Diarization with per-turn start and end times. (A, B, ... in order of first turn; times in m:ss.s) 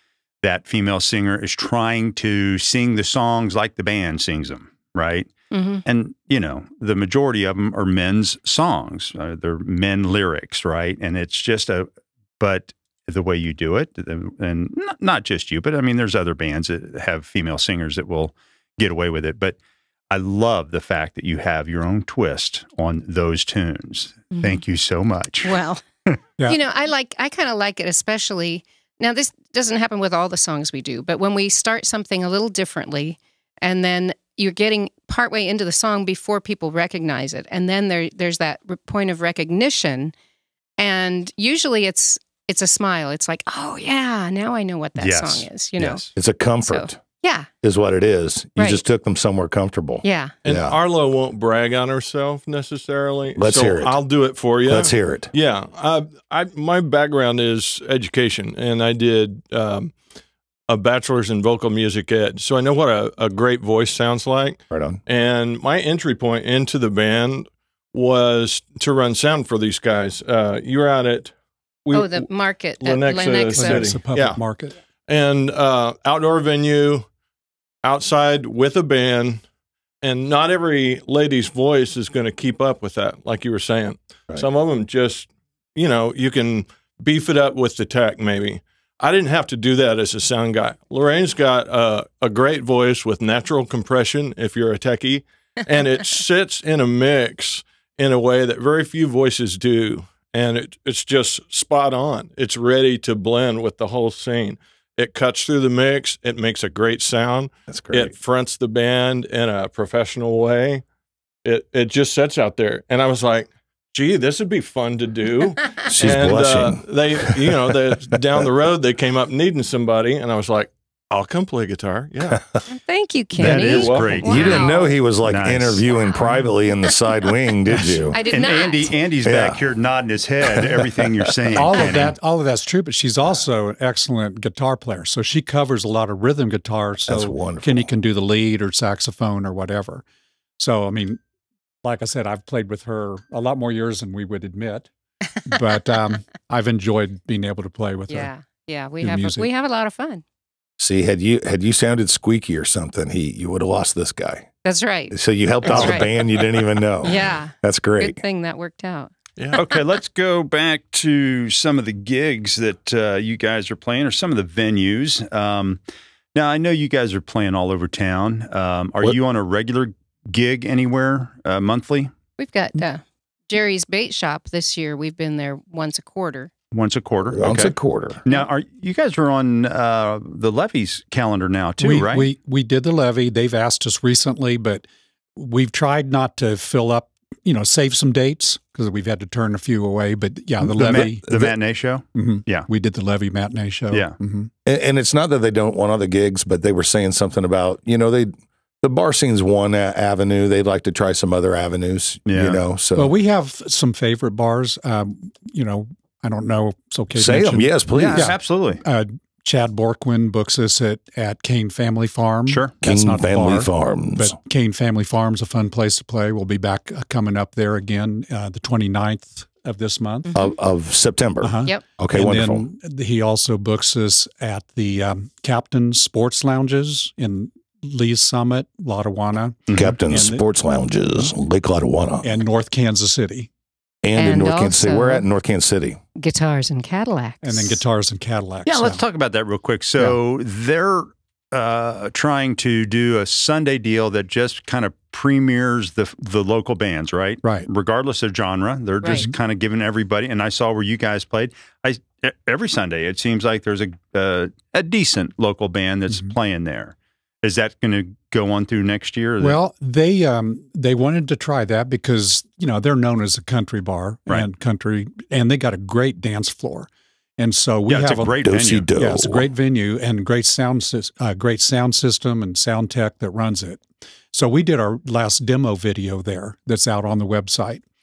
0:00.4-0:05.3 A
0:05.5-0:05.8 B
0:05.8-0:11.9 A
0:12.4-0:19.6 A
0:20.1-0:25.6 A
0:24.3-0:24.6 B
0:25.4-0:25.8 B
0:26.5-0:40.1 B
0:40.8-0:46.0 B
0:45.0-0:46.1 A
0:46.1-0:47.0 C
0:46.6-0:47.5 B
0:47.6-0:50.8 C
0:50.0-0:50.4 B
0:50.4-1:00.0 D
0:53.4-0:54.0 C
0:54.6-0:55.3 C
1:00.7-1:11.3 D
1:04.7-1:05.0 C
1:11.8-1:12.3 D
1:11.9-1:14.0 B
1:12.8-1:14.4 D
1:13.5-1:14.8 E
1:15.1-1:17.1 D
1:17.8-1:19.4 D
1:20.0-1:50.8 D
1:47.7-1:48.1 C
1:51.4-2:02.5 D
1:55.9-1:57.5 C
2:02.7-2:05.0 B
2:03.4-2:04.4 D
2:03.4-2:05.8 A
2:04.2-2:08.2 C
2:08.1-2:09.0 B
2:08.3-2:12.2 A
2:09.2-2:09.6 C
2:10.5-2:11.1 C
2:11.5-2:20.0 E
2:17.1-2:17.9 C
2:20.6-2:21.2 E
2:21.8-2:24.9 E
2:25.4-2:28.3 E
2:28.1-2:30.2 B
2:29.0-2:29.5 E
2:30.8-2:34.5 C
2:34.6-2:36.1 B
2:35.1-2:38.2 C
2:37.0-2:39.2 B
2:39.4-2:39.6 D
2:39.5-2:45.8 A
2:46.3-2:52.1 A
2:52.4-2:56.5 B
2:56.7-3:02.3 A
2:57.3-2:58.2 C
3:01.8-3:11.6 E
3:10.6-3:12.7 A
3:12.1-3:14.5 E
3:14.7-3:23.1 C
3:22.3-3:22.6 A
3:23.0-3:40.3 E
3:27.1-3:28.3 C
3:28.2-3:28.8 A
3:32.5-3:32.7 A
3:32.8-3:34.4 C
3:40.3-3:40.5 B
3:40.3-3:42.7 C
3:41.4-3:50.4 E
3:49.8-3:52.4 C
3:52.2-3:53.5 E
3:54.0-3:56.0 C
3:54.2-3:55.3 B
3:56.2-3:57.8 B
3:57.4-3:59.0 E
3:58.7-4:19.6 A
4:07.4-4:07.7 E
4:19.4-4:28.4 E
4:27.9-4:28.9 A
4:28.4-4:29.5 C
4:29.0-4:37.8 E